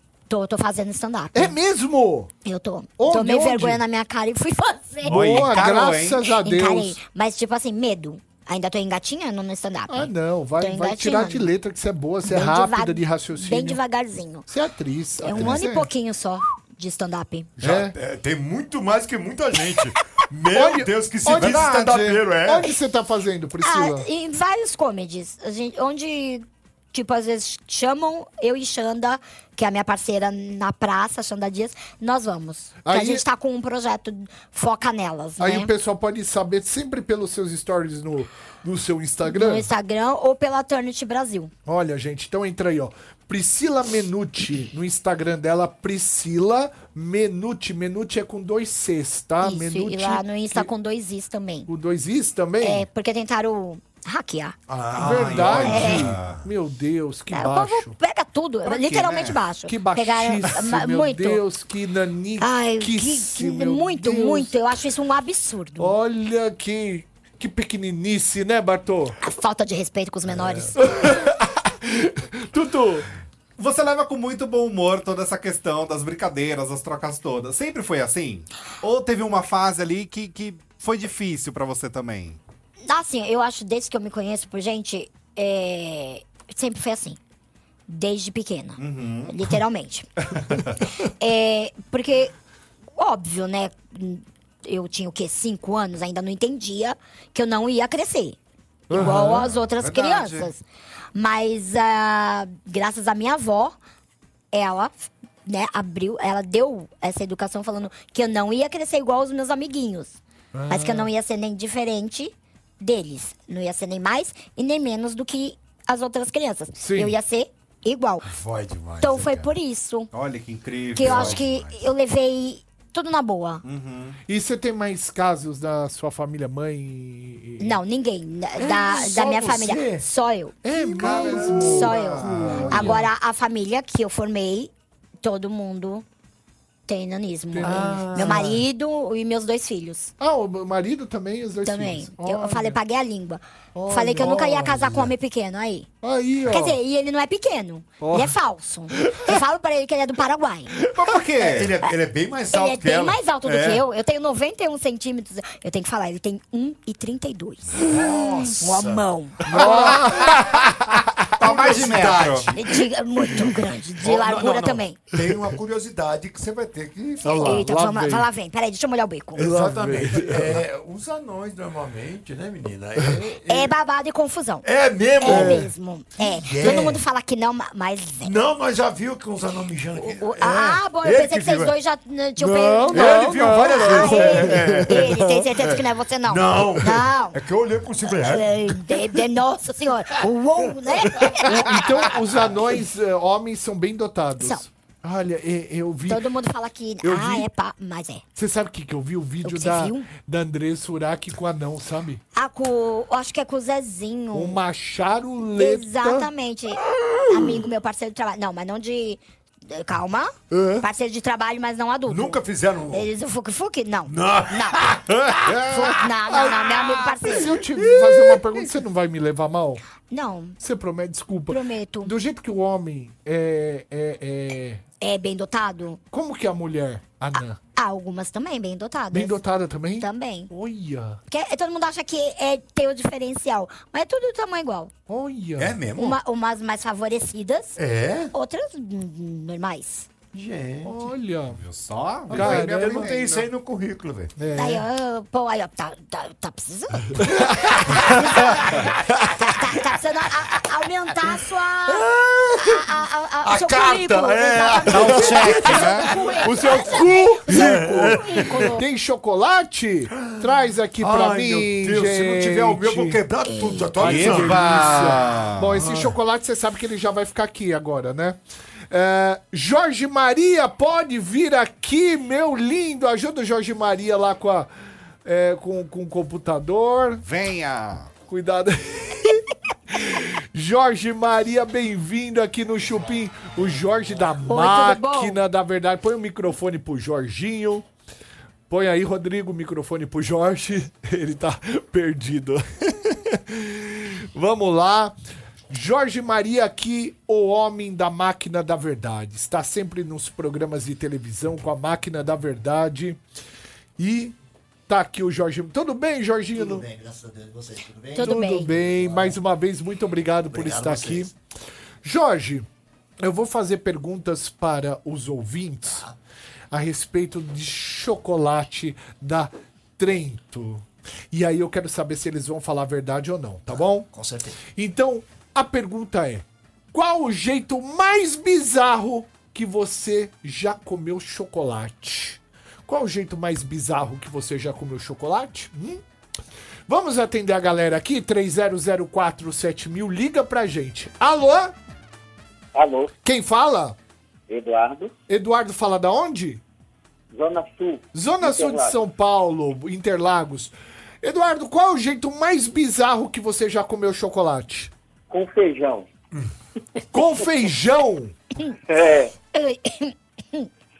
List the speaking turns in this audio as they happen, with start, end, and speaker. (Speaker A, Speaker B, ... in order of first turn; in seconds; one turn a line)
Speaker A: 0.3-1.6
Speaker B: 1.3-2.3
Speaker A: 2.5-5.6
Speaker B: 3.0-3.8
Speaker C: 5.1-6.3
Speaker B: 5.1-7.0
Speaker A: 6.3-11.5
Speaker B: 9.9-13.8
Speaker A: 12.3-14.5
Speaker B: 14.5-15.9
Speaker A: 15.2-17.5
Speaker D: 15.3-15.6
Speaker B: 17.6-17.9
Speaker D: 17.6-22.7
Speaker B: 20.5-24.1
Speaker C: 21.3-22.0
Speaker A: 23.6-35.7
Speaker B: 32.8-33.2
Speaker B: 35.4-39.7
Speaker A: 39.3-41.5
Speaker B: 41.7-50.7
Speaker A: 49.4-51.7
Speaker B: 51.7-52.9
Speaker A: 52.6-54.6
Speaker D: 54.7-56.4
Speaker B: 55.0-58.0
Speaker C: 55.0-56.4
Speaker A: 55.7-56.1
Speaker A: 57.3-61.4
Speaker C: 58.7-59.4
Speaker B: 59.7-64.6
Speaker A: 62.4-66.0
Speaker B: 65.8-69.2
Speaker A: 69.2-70.9
Speaker D: 70.3-71.1
Speaker B: 70.8-73.1
Speaker C: 73.6-82.4
Speaker A: 82.8-87.2
Speaker A: 87.9-90.1
Speaker C: 88.8-89.4
Speaker A: 91.2-92.3
Speaker A: 93.0-98.4
Speaker A: 98.9-100.6
Speaker B: 98.9-99.5
Speaker C: 99.1-100.5
Speaker A: 101.1-103.8
Speaker A: 104.5-118.3
Speaker B: 110.5-111.1
Speaker B: 116.8-117.2
Speaker D: 118.3-119.5
Speaker A: 119.0-120.1
Speaker C: 120.1-121.4
Speaker A: 121.0-123.6
Speaker D: 121.0-121.9
Speaker C: 123.6-124.2
Speaker B: 124.3-127.8
Speaker A: 127.6-130.6
Speaker D: 128.6-130.1
Speaker B: 130.6-133.1
Speaker D: 131.0-133.0
Speaker C: 131.0-132.9
Speaker A: 131.6-134.7
Speaker A: 135.2-136.1
Speaker A: 136.9-140.1
Speaker B: 137.5-138.6
Speaker D: 137.6-138.6
Speaker B: 140.2-142.8
Speaker A: 141.6-145.9
Speaker B: 143.8-145.0
Speaker D: 143.8-145.1
Speaker B: 146.0-146.8
Speaker A: 146.5-150.8
Speaker B: 148.0-148.3
Speaker B: 149.0-149.3
Speaker C: 150.9-151.8
Speaker D: 151.4-153.8
Speaker A: 152.5-159.5
Speaker D: 157.7-160.6
Speaker B: 159.5-161.0
Speaker D: 161.3-162.8
Speaker C: 161.4-162.5
Speaker A: 162.6-165.1
Speaker D: 164.0-167.7
Speaker A: 167.2-169.5
Speaker B: 167.2-168.3
Speaker B: 169.4-170.6
Speaker D: 169.4-173.7
Speaker A: 173.4-174.7
Speaker D: 174.6-177.0
Speaker A: 175.2-178.3
Speaker B: 175.2-175.7
Speaker B: 176.6-177.0
Speaker D: 178.2-181.7
Speaker A: 180.0-187.4
Speaker B: 182.4-185.5
Speaker D: 182.9-189.0
Speaker A: 188.1-191.9
Speaker B: 191.5-196.2
Speaker A: 194.4-194.6
Speaker A: 196.1-198.2
Speaker B: 197.0-197.5
Speaker B: 198.3-202.2
Speaker A: 199.4-200.1
Speaker A: 202.3-204.6
Speaker B: 204.3-206.3
Speaker A: 205.6-212.4
Speaker D: 207.1-207.6
Speaker D: 212.1-213.1
Speaker A: 212.9-214.8
Speaker D: 214.1-216.0
Speaker B: 215.6-219.8
Speaker A: 215.9-217.5
Speaker D: 217.3-218.7
Speaker A: 220.0-220.6
Speaker B: 220.6-224.8
Speaker A: 221.5-222.1
Speaker A: 225.0-226.0
Speaker B: 226.1-227.6
Speaker A: 227.4-229.4
Speaker B: 229.1-231.2
Speaker A: 230.0-230.5
Speaker A: 231.3-234.9
Speaker B: 235.1-235.8
Speaker D: 235.6-236.2
Speaker A: 235.9-237.8
Speaker D: 237.8-238.3
Speaker A: 238.3-240.1
Speaker D: 240.3-240.9
Speaker B: 240.8-241.6
Speaker C: 241.6-243.5
Speaker B: 242.3-243.1
Speaker D: 242.3-244.3
Speaker B: 244.4-244.9
Speaker A: 244.5-247.2
Speaker B: 247.2-248.1
Speaker D: 247.9-248.1
Speaker A: 248.1-248.5
Speaker A: 249.3-252.1
Speaker D: 251.9-252.9
Speaker A: 252.6-258.9
Speaker D: 253.4-258.8
Speaker C: 254.9-256.1
Speaker B: 256.4-263.2
Speaker D: 261.0-265.1
Speaker A: 263.4-264.1
Speaker B: 264.0-274.7
Speaker C: 264.0-265.7
Speaker D: 265.7-266.1
Speaker B: 275.2-277.2
Speaker C: 277.2-278.1
Speaker B: 278.3-287.9
Speaker A: 284.4-285.4
Speaker B: 288.7-295.1
Speaker B: 295.7-303.2
Speaker B: 304.0-304.4
Speaker B: 304.9-306.9
Speaker E: 306.5-309.4
Speaker A: 308.1-308.7
Speaker B: 308.2-311.3
Speaker E: 310.5-311.3
Speaker B: 312.0-312.7
Speaker B: 313.2-316.1
Speaker E: 315.9-316.1
Speaker B: 316.7-324.1
Speaker E: 323.7-324.6
Speaker B: 324.6-336.0
Speaker B: 336.9-341.8
Speaker F: 342.7-343.1
Speaker B: 343.2-344.0
Speaker F: 344.5-345.1
Speaker B: 345.3-346.6
Speaker F: 347.3-349.0
Speaker B: 348.1-354.9
Speaker F: 355.3-356.1
Speaker B: 357.1-358.4
Speaker F: 358.9-359.3
Speaker A: 359.5-360.7